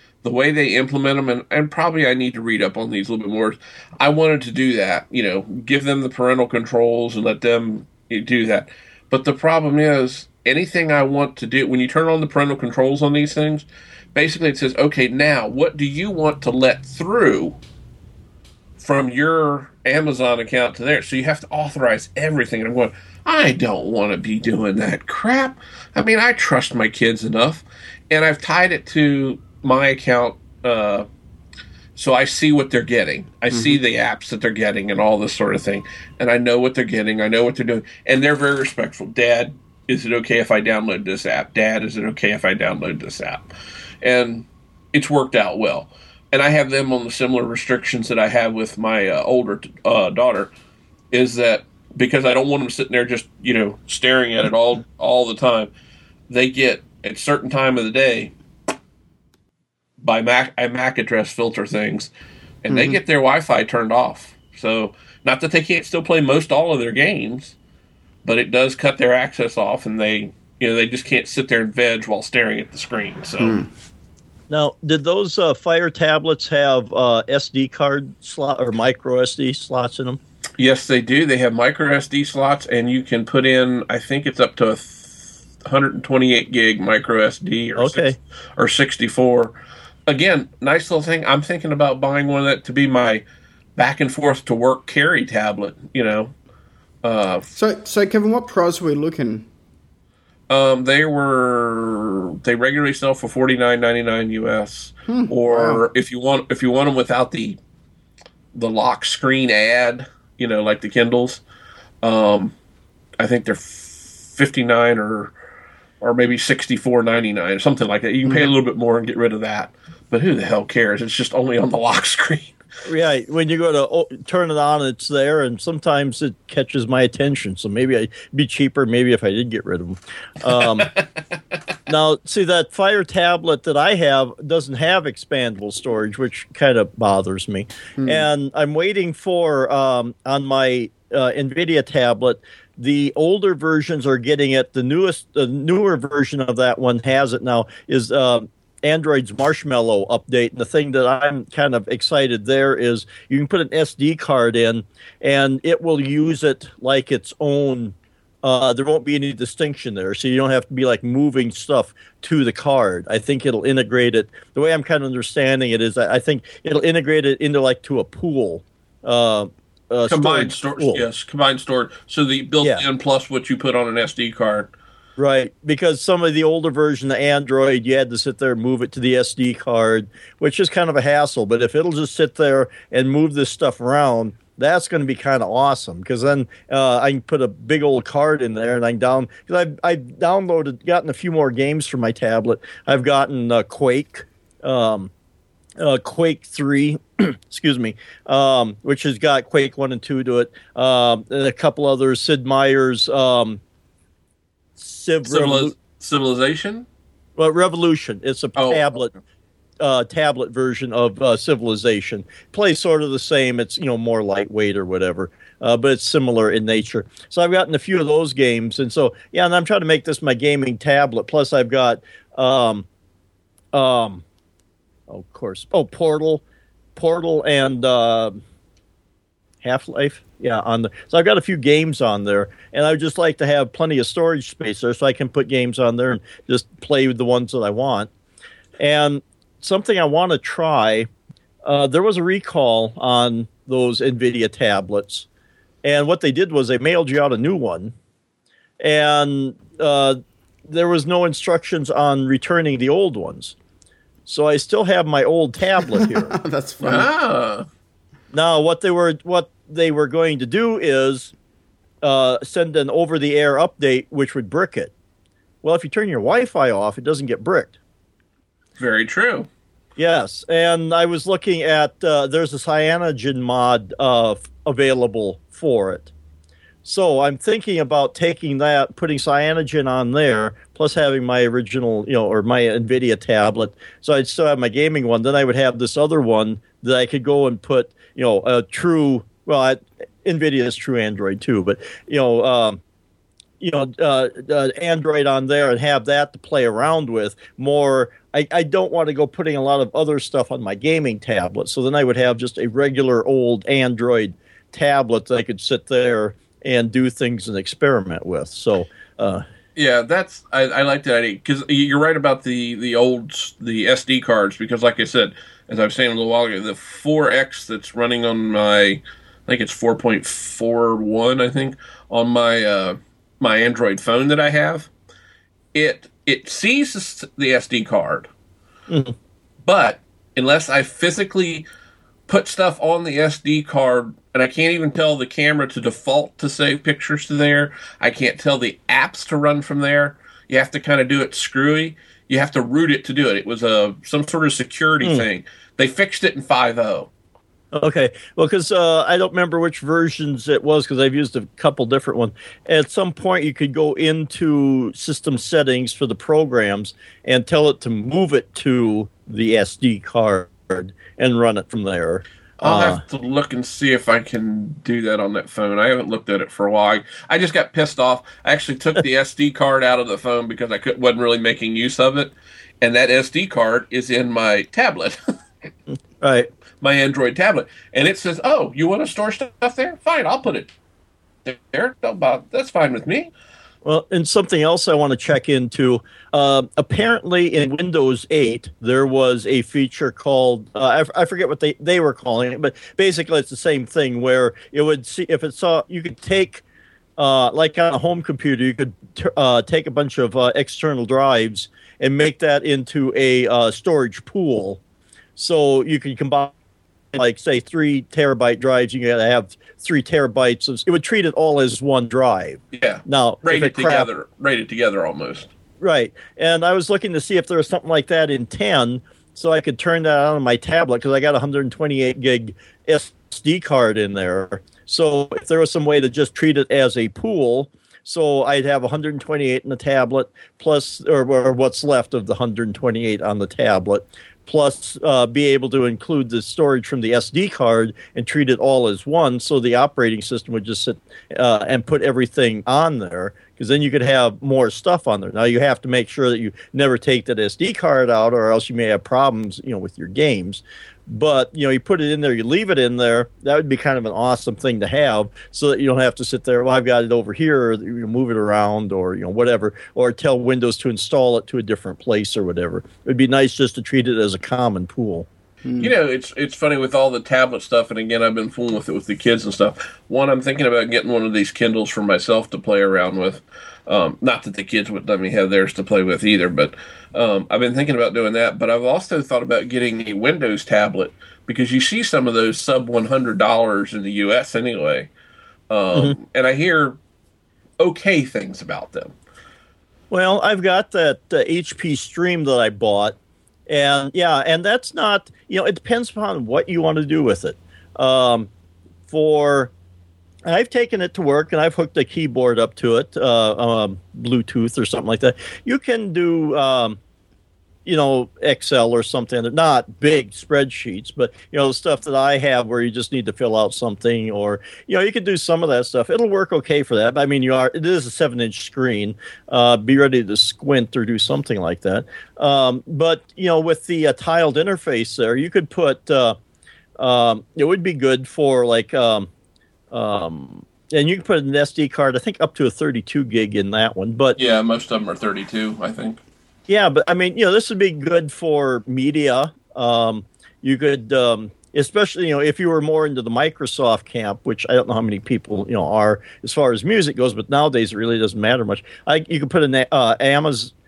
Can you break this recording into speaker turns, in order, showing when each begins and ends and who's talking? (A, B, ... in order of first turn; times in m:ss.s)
0:00.2-0:17.6 A
0:18.8-0:31.1 A
0:32.0-0:43.5 A
0:33.5-0:33.8 B
0:44.0-0:50.5 A
0:51.1-0:55.7 A
0:56.3-0:58.3 A
1:00.0-1:02.1 A
1:02.6-1:07.6 A
1:02.7-1:03.0 B
1:08.2-1:13.6 A
1:13.4-1:13.7 B
1:14.5-1:20.2 C
1:20.6-1:29.6 A
1:27.8-1:28.2 C
1:30.1-1:33.2 A
1:33.8-1:36.3 A
1:37.0-1:37.5 A
1:37.5-1:39.5 B
1:40.5-1:47.6 A
1:45.1-1:45.8 B
1:48.6-1:51.4 A
1:52.0-1:52.5 A
1:53.2-1:55.3 A
1:56.0-2:02.6 A
2:02.9-2:10.9 C
2:10.6-2:10.9 A
2:11.9-2:51.0 C
2:18.0-2:18.2 B
2:50.1-2:54.7 A
2:55.2-3:15.1 C
3:15.8-3:23.6 C
3:24.8-3:25.7 C
3:25.3-3:26.9 A
3:27.4-3:29.2 C
3:28.6-3:28.9 A
3:29.8-3:42.9 C
3:43.7-3:44.2 C
3:45.1-3:46.4 C
3:47.0-3:48.4 C
3:49.6-3:58.1 C
3:58.8-4:01.1 C
4:01.6-4:05.3 C
4:05.8-4:07.9 C
4:08.8-4:13.6 C
4:14.3-4:16.4 C
4:16.0-4:17.1 B
4:16.8-4:17.7 A
4:18.3-4:21.3 C
4:22.0-4:24.9 C
4:25.6-4:27.8 C
4:28.8-4:29.5 A
4:30.0-4:36.1 C
4:36.8-4:52.8 C
4:53.6-5:09.4 C
5:09.8-5:24.9 A
5:25.7-5:28.3 A
5:28.9-5:29.2 C
5:29.6-5:31.7 A
5:32.3-5:47.1 A
5:47.7-6:03.0 C
6:02.6-6:15.2 A
6:16.2-6:16.5 C
6:16.8-6:20.7 A
6:21.4-6:23.3 A
6:23.8-6:36.6 C
6:37.2-6:44.8 C
6:45.4-6:46.5 C
6:47.1-6:54.1 C
6:52.7-6:55.5 A
6:55.8-7:45.3 C
7:45.8-8:05.1 A
8:05.7-8:07.0 A
8:07.8-8:09.1 A
8:10.1-8:13.2 C
8:13.7-8:18.5 C
8:19.1-8:19.7 C
8:20.5-8:27.0 C
8:27.8-8:46.4 C
8:47.0-8:49.3 C
8:49.9-8:54.4 C
8:54.4-8:56.2 A
8:56.7-9:10.7 C